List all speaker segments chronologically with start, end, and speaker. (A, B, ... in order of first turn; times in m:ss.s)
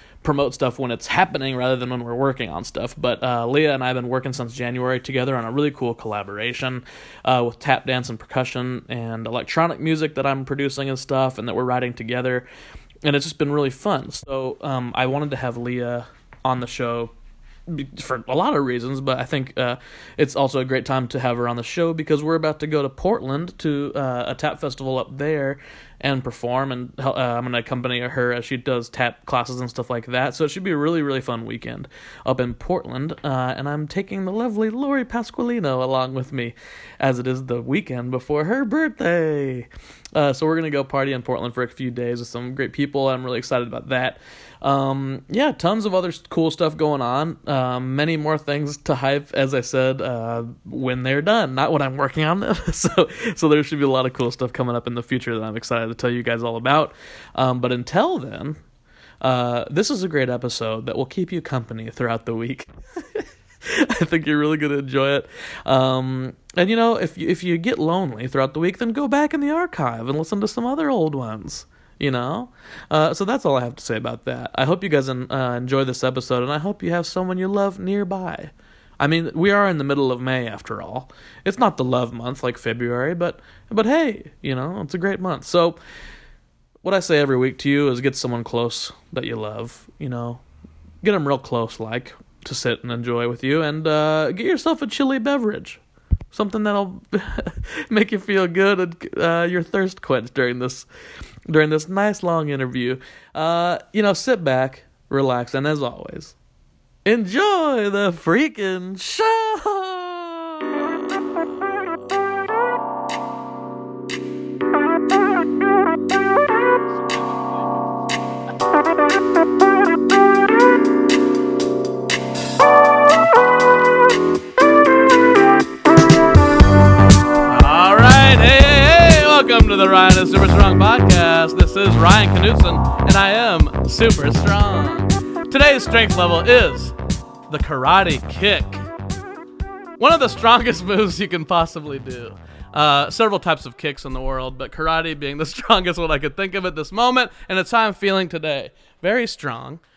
0:00.2-0:12.5 A
0:13.0-0:17.1 A
0:17.7-0:58.6 A
0:59.2-1:25.8 A
1:26.8-1:30.4 A
1:31.0-1:35.8 A
1:36.3-1:40.9 A
1:41.5-1:46.4 A
1:47.0-1:51.2 A
2:07.4-2:17.0 A
2:17.5-2:18.9 A
2:20.0-2:29.8 A